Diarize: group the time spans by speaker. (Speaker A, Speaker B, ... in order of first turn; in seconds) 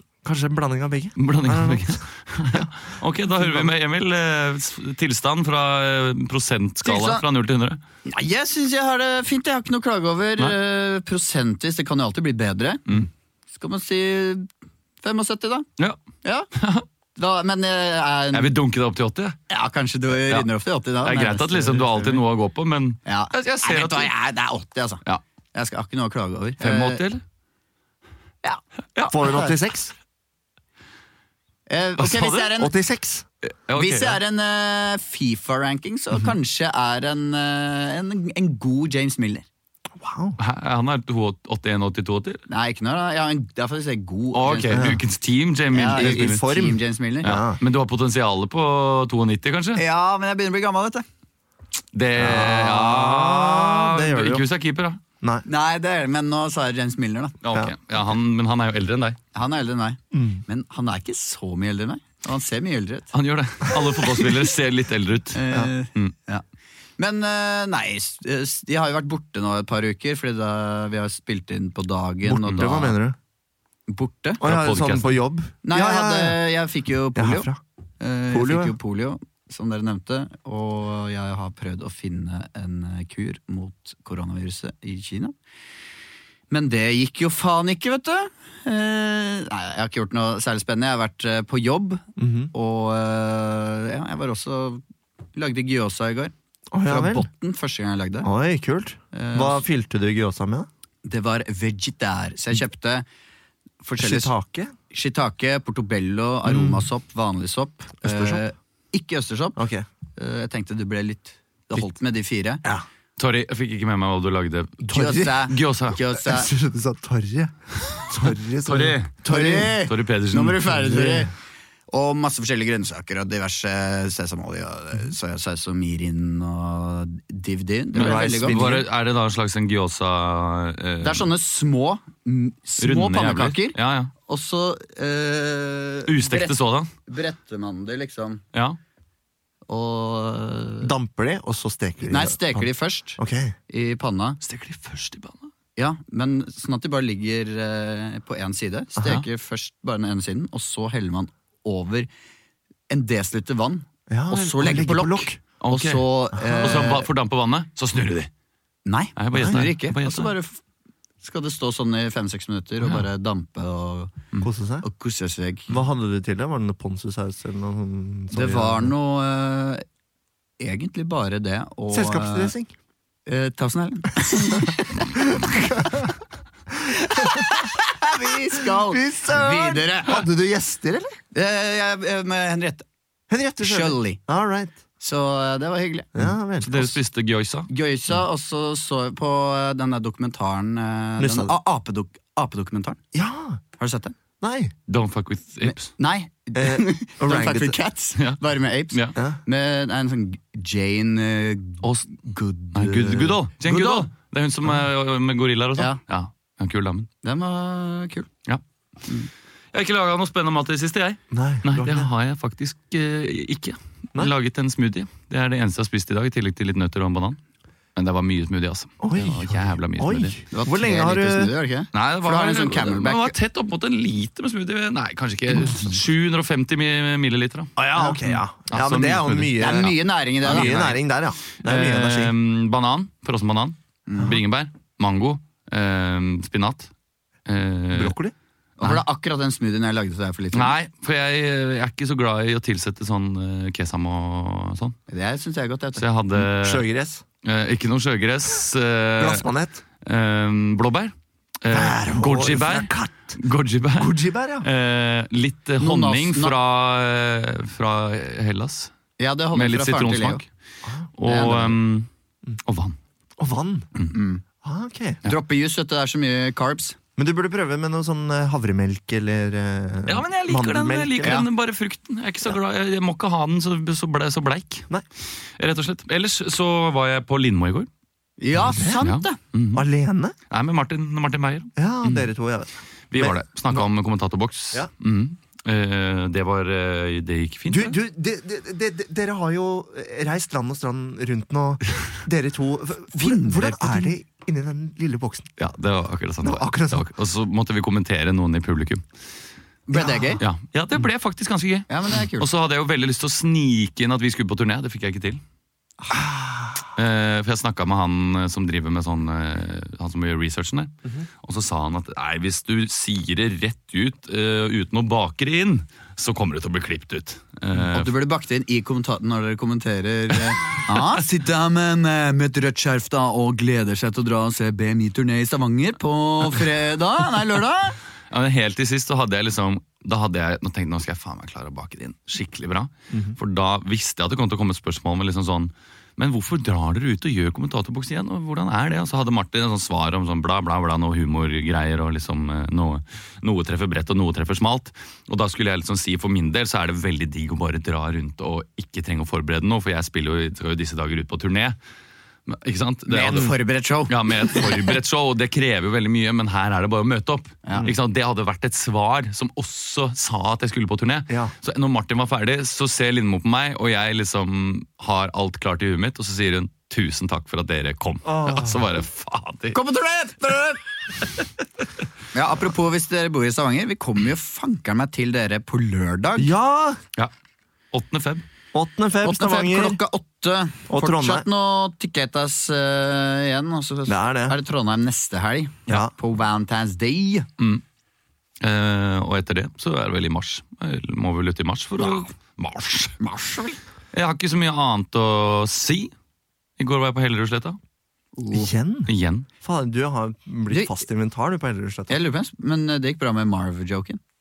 Speaker A: 0.2-2.0, 3.4-3.7, 29.1-29.9, 32.6-33.2, 40.0-40.4, 44.7-45.0, 45.9-47.6, 52.2-54.4, 60.1-60.4, 72.2-73.2, 74.4-76.4, 77.1-77.6, 78.3-78.7, 92.2-92.5, 96.7-97.3, 98.2-100.7, 104.0-104.7, 106.4-106.8, 108.0-108.4, 109.5-109.8, 114.8-115.5, 116.2-119.8, 120.7-121.3, 127.9-128.8, 140.8-142.7, 143.2-143.5, 154.1-155.4, 156.5-156.8, 159.3-159.6, 164.4-164.8, 165.7-168.9, 171.9-172.7, 175.2-176.1, 178.6-181.2, 183.3-184.8, 186.1-187.0, 191.2-191.5, 193.1-193.6, 194.4-194.7, 196.5-197.8, 211.3-212.1, 219.0-221.5, 227.8-232.3, 237.9-238.3, 246.3-247.2, 249.2-249.8, 251.7-253.4, 254.0-254.7, 260.8-261.1, 263.4-263.9, 264.6-265.2, 267.2-271.4, 278.7-279.0, 279.7-280.3, 281.8-283.9, 287.7-295.5, 296.4-297.1, 299.9-300.4, 306.1-306.8, 333.1-333.4, 368.2-368.9, 376.4-377.0, 378.7-380.0, 380.9-381.4, 384.1-384.6, 398.5-402.1
Speaker B: 1.2-7.8, 16.5-16.8, 18.3-19.4, 20.1-20.5, 21.0-24.1, 26.6-27.2, 28.9-29.2, 32.0-32.5, 33.4-34.2, 40.4-42.4, 44.3-46.4, 47.2-49.8, 51.9-55.0, 57.4-59.2, 63.1-65.4, 74.4-75.2, 113.2-116.0, 118.6-120.8, 127.9-131.3, 132.8-134.1, 136.1-136.9, 144.4-145.5, 155.6-158.3, 159.2-160.3, 186.6-187.7, 194.9-195.9, 201.8-207.1, 209.7-217.4, 217.9-220.4, 221.9-229.8, 230.5-230.9, 231.6-236.9, 237.5-238.2, 240.5-244.9, 246.0-246.8, 247.4-249.5, 250.0-258.9, 259.5-260.4, 261.2-262.1, 262.6-263.0, 270.1-274.9, 275.6-277.9, 278.7-279.9, 280.5-282.3, 283.1-288.0, 295.6-299.0, 300.4-305.4, 306.9-318.1, 328.3-351.8, 352.5-353.6, 354.1-369.8, 377.9-378.4, 388.6-393.1, 394.1-396.1, 396.8-397.8, 399.1-399.5
Speaker C: 6.8-7.2, 8.1-13.0, 13.5-14.5, 15.0-15.7, 17.1-18.5, 19.5-22.2, 23.1-25.0, 25.5-27.0, 28.4-29.5, 31.7-32.7, 33.7-39.5, 42.5-44.9, 45.7-47.3, 49.8-51.0, 55.5-57.4, 59.3-63.1, 63.7-64.3, 65.3-66.4, 67.0-72.9, 73.9-74.4, 75.6-77.5, 78.0-85.3, 86.5-94.8, 95.3-96.3, 96.8-98.3, 99.1-99.6, 101.0-103.0, 103.8-104.3, 104.9-109.6, 110.2-112.6, 114.9-116.5, 119.2-121.3, 121.9-128.8, 131.0-138.4, 139.7-140.9, 142.1-144.4, 145.8-152.1, 152.9-157.1, 158.8-160.6, 161.2-165.7, 168.3-169.8, 170.6-172.5, 173.2-175.9, 176.8-180.2, 181.3-182.8, 183.6-184.2, 185.0-186.2, 187.7-193.0, 193.8-194.1, 195.6-204.1, 207.2-208.3, 220.5-223.3, 229.6-230.9, 234.1-234.4, 238.8-240.7, 245.1-246.0, 255.8-256.5, 259.2-260.4, 261.2-261.8, 264.1-264.4, 265.2-267.0, 271.2-271.5, 278.4-279.4, 293.1-294.1, 299.9-300.4, 301.9-302.5, 317.9-328.0, 353.1-354.9, 357.6-357.9, 369.7-370.8, 372.3-376.5, 379.2-387.5, 393.2-393.8, 398.4-398.7, 400.7-401.0, 402.1-404.2